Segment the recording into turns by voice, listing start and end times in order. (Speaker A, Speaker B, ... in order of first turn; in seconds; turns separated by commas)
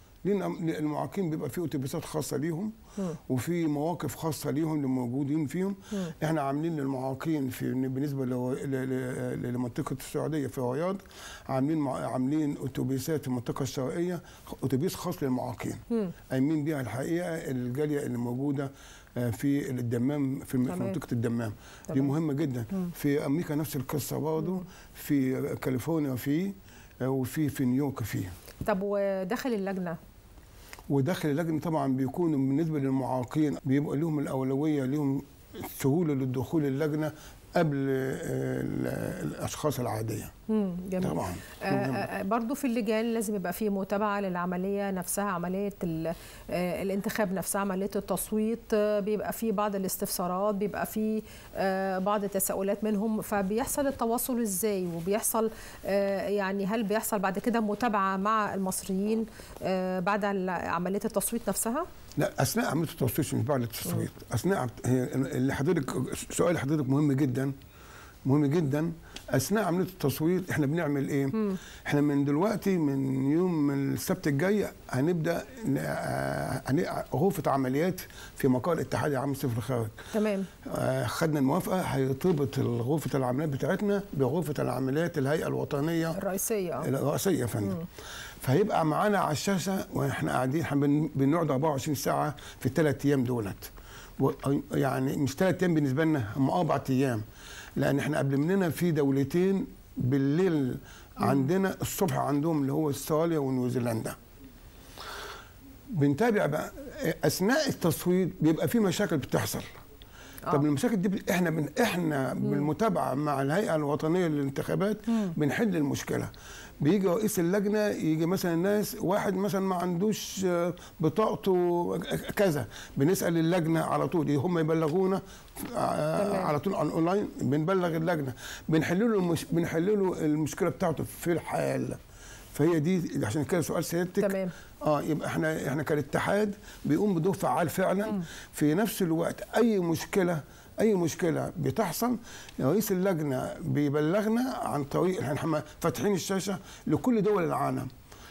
Speaker A: 0.2-2.8, Speaker A: 3.3-28.3, Speaker B: 20.7-21.0, Speaker B: 28.7-30.0, Speaker A: 30.9-40.3, Speaker B: 40.5-61.9, Speaker A: 41.0-42.1, Speaker A: 62.2-67.5, Speaker A: 68.3-79.9, Speaker B: 80.1-80.5, Speaker A: 80.7-86.2, Speaker B: 86.2-86.9, Speaker A: 86.8-87.8, Speaker A: 88.4-97.2, Speaker A: 97.8-104.2, Speaker A: 106.0-109.7, Speaker A: 110.5-116.3, Speaker A: 116.8-132.0, Speaker B: 126.2-126.5, Speaker A: 132.6-147.9, Speaker B: 134.2-134.5